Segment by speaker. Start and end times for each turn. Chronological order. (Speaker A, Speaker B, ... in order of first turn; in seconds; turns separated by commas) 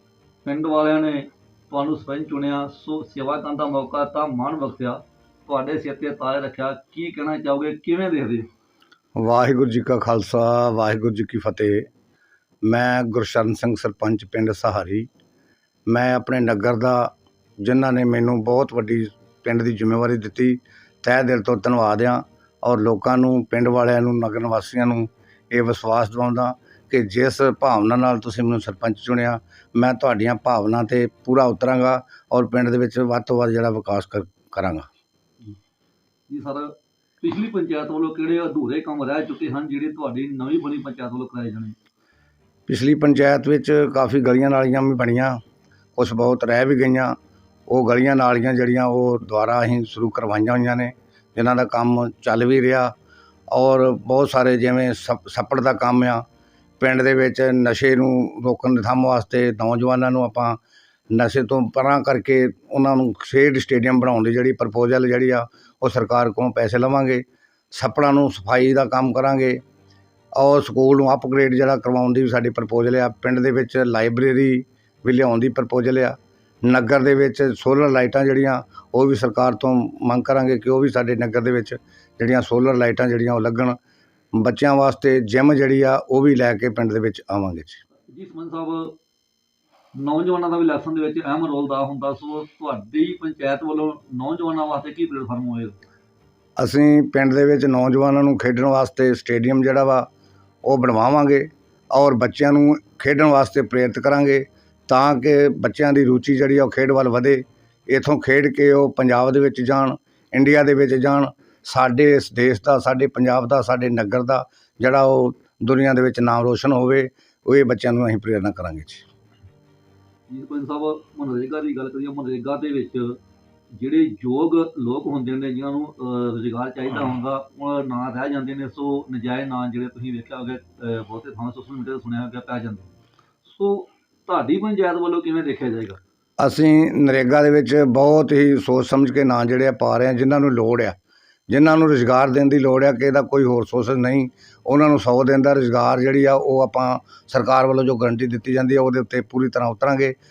Speaker A: 0.5-8.5, Speaker B: 9.2-11.9, Speaker B: 12.7-15.1, Speaker B: 15.9-34.9, Speaker A: 36.3-41.8, Speaker B: 42.7-45.4, Speaker B: 46.0-47.2, Speaker B: 47.7-52.9, Speaker B: 53.5-56.2, Speaker B: 56.8-60.6, Speaker B: 61.1-69.6, Speaker B: 70.3-83.8, Speaker B: 84.3-87.8, Speaker A: 88.1-88.9, Speaker A: 89.9-95.8, Speaker B: 96.6-100.1, Speaker B: 100.6-119.0, Speaker A: 120.3-123.2, Speaker A: 123.8-132.9, Speaker A: 133.4-136.0, Speaker B: 136.4-141.0, Speaker B: 141.5-150.2